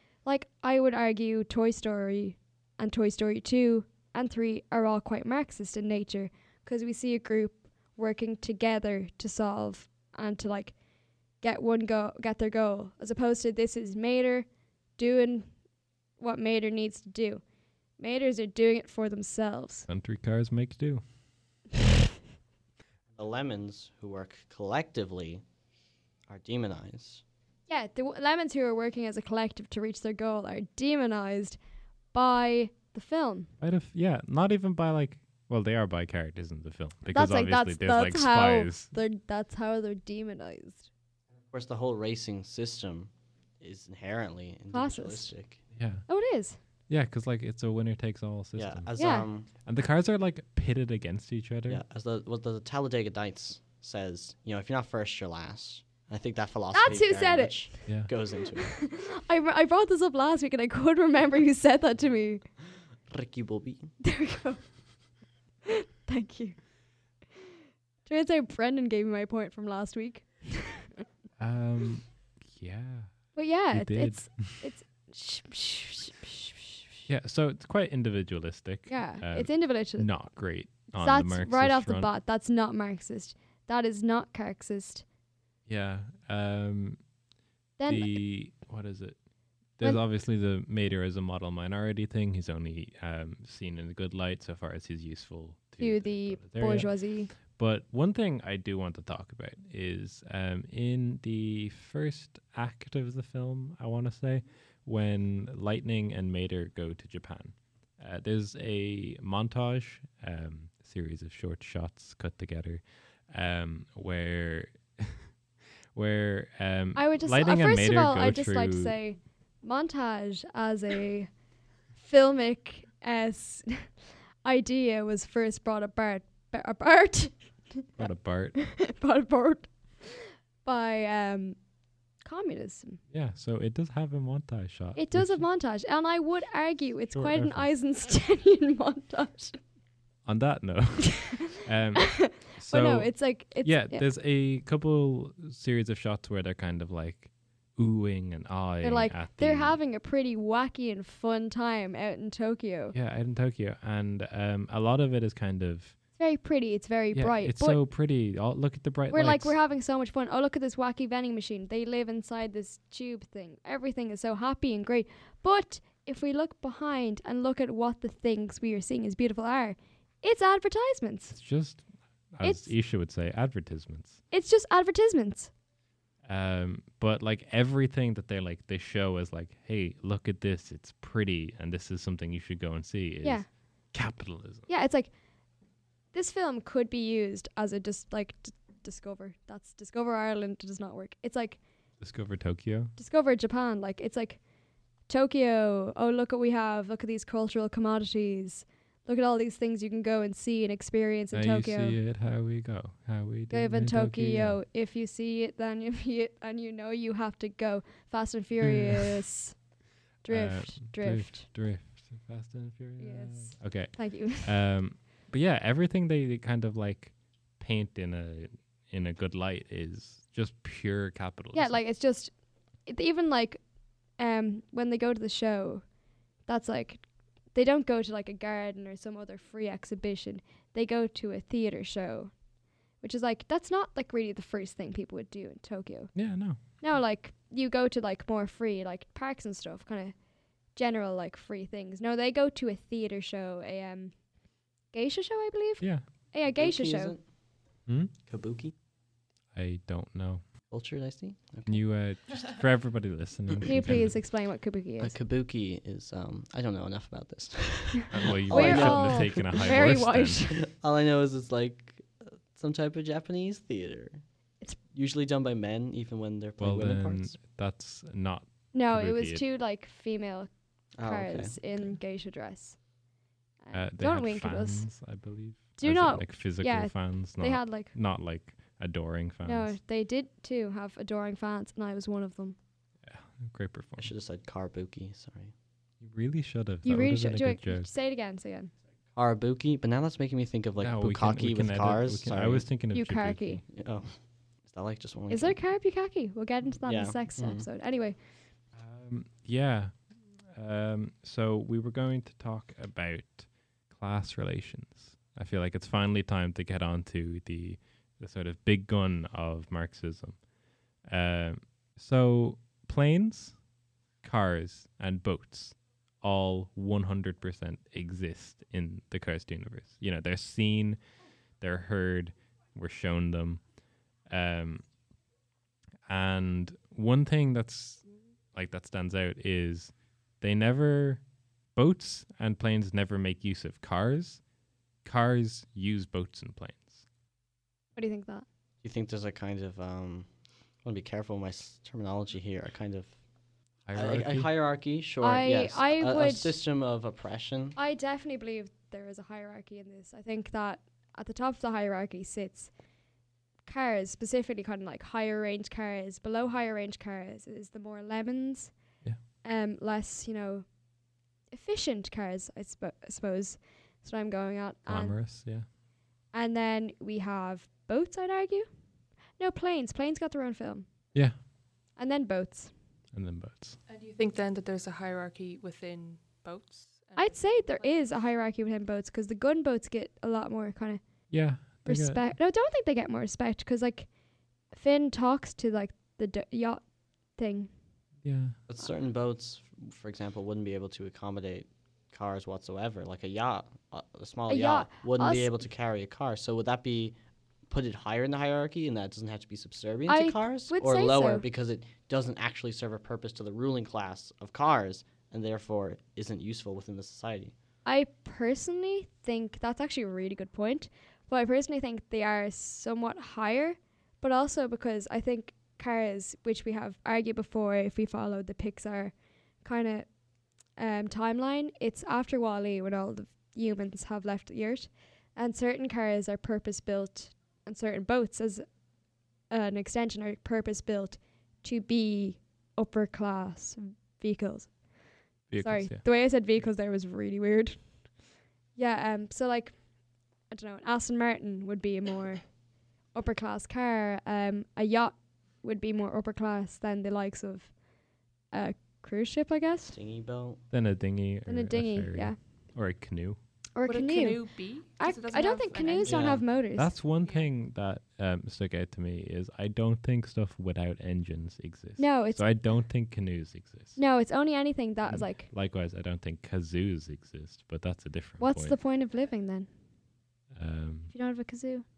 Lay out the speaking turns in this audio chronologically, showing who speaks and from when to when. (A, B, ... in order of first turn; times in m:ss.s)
0:00.2-0:10.8 A
0:11.4-0:15.5 A
0:16.2-0:17.4 A
0:18.0-0:19.9 A
0:19.9-0:21.0 B
0:23.1-0:25.4 C
0:26.3-0:27.2 C
0:27.7-0:31.6 A
0:32.1-0:33.5 A
0:33.6-0:38.9 B
0:37.1-0:40.9 A
0:41.5-0:45.6 C
0:44.7-0:45.3 A
0:45.7-0:46.1 B
0:46.1-0:46.6 A
0:46.9-0:49.0 B
0:48.6-0:49.5 C
0:49.0-0:49.3 A
0:49.5-0:51.8 B
0:51.7-0:58.7 C
0:56.7-1:02.5 A
1:03.1-1:03.9 C
1:04.0-1:04.7 A
1:05.7-1:06.6 A
1:08.1-1:10.9 A
1:11.4-1:14.6 B
1:13.4-1:17.0 A
1:17.1-1:22.1 B
1:18.9-1:25.0 A
1:25.7-1:27.0 B
1:27.8-1:28.2 A
1:27.9-1:29.2 B
1:29.8-1:55.3 B
1:35.8-1:37.3 A
1:55.9-1:58.9 B
1:56.9-2:01.3 A
2:02.0-2:03.9 A
2:04.4-2:07.9 A
2:08.0-2:08.7 B
2:08.6-2:11.6 A
2:12.2-2:13.0 A
2:13.1-2:15.4 B
2:15.0-2:19.6 A
2:17.1-2:17.7 B
2:20.2-2:29.8 B
2:22.2-2:24.0 A
2:28.8-2:32.9 A
2:32.9-2:36.0 B
2:36.2-2:37.8 A
2:37.1-2:39.6 B
2:39.1-2:51.4 A
2:51.3-2:54.2 B
2:52.4-2:52.7 A
2:54.3-2:55.5 A
2:56.2-3:04.7 B
3:04.7-3:05.1 A
3:06.1-3:11.6 A
3:12.0-3:12.9 B
3:13.0-3:14.4 A
3:15.1-3:22.0 A
3:21.3-3:24.6 B
3:23.5-3:29.6 A
3:28.6-3:29.2 B
3:30.2-3:31.5 A
3:30.3-3:41.8 B
3:33.0-3:34.5 A
3:41.5-3:42.3 A
3:42.8-3:43.6 A
3:44.2-3:45.8 A
3:46.4-3:52.3 A
3:53.0-4:00.2 A
3:56.1-3:56.6 B
4:00.7-4:04.2 A
4:04.9-4:07.1 A
4:05.8-4:06.1 B
4:06.6-4:07.3 C
4:07.9-4:08.1 B
4:08.2-4:08.7 C
4:09.5-4:10.4 B
4:10.7-4:11.8 C
4:11.6-4:14.2 B
4:13.6-4:15.2 A
4:15.0-4:19.9 C
4:18.1-4:20.4 B
4:18.5-4:20.6 A
4:20.5-4:24.2 C
4:24.9-4:27.4 C
4:26.6-4:29.4 B
4:28.7-4:32.8 A
4:31.0-4:31.6 C
4:33.6-4:34.9 A
4:33.7-4:39.8 B
4:35.8-4:37.9 A
4:39.4-4:42.6 A
4:43.1-4:44.1 B
4:44.0-4:45.5 C
4:46.0-4:47.9 B
4:46.8-4:48.7 A
4:49.1-4:52.7 C
4:50.8-4:53.6 B
4:52.9-4:53.6 A
4:53.7-4:55.6 C
4:55.3-4:58.2 A
4:56.7-4:57.7 C
4:58.7-5:10.4 B
5:11.0-5:13.6 B
5:14.2-5:21.0 B
5:21.6-5:23.7 B
5:24.2-5:24.9 B
5:26.1-5:31.2 B
5:31.7-5:34.4 B
5:35.0-5:37.0 B
5:38.0-5:38.4 A
5:38.8-5:40.3 C
5:40.8-5:43.2 C
5:43.9-5:44.5 B
5:43.9-5:47.8 C
5:45.2-5:46.6 A
5:47.8-5:52.7 A
5:53.6-5:58.7 A
5:59.4-6:00.7 A
6:01.5-6:05.2 A
6:04.9-6:05.6 B
6:06.3-6:08.7 A
6:09.4-6:10.9 A
6:12.0-6:12.7 A
6:13.1-6:13.8 B
6:13.9-6:18.1 D
6:17.2-6:24.1 A
6:21.3-6:22.2 B
6:24.7-6:27.7 A
6:28.2-6:28.6 B
6:28.7-6:37.2 C
6:34.5-6:35.5 A
6:37.7-6:47.5 C
6:40.1-6:41.4 A
6:47.8-7:00.1 A
7:00.8-7:08.6 A
7:09.5-7:14.8 A
7:15.5-7:16.0 B
7:15.5-7:18.1 A
7:18.8-7:19.8 A
7:20.5-7:22.5 A
7:23.1-7:27.8 A
7:28.5-7:30.0 A
7:29.9-7:30.6 C
7:30.7-7:33.4 B
7:31.5-7:32.4 A
7:33.8-7:36.9 A
7:33.8-7:36.4 D
7:36.1-7:36.4 C
7:36.8-7:44.0 B
7:37.2-7:37.5 D
7:42.0-7:42.5 A
7:44.0-7:45.5 A
7:45.0-7:48.8 B
7:48.4-7:49.7 A
7:50.5-7:51.1 B
7:51.1-7:51.8 A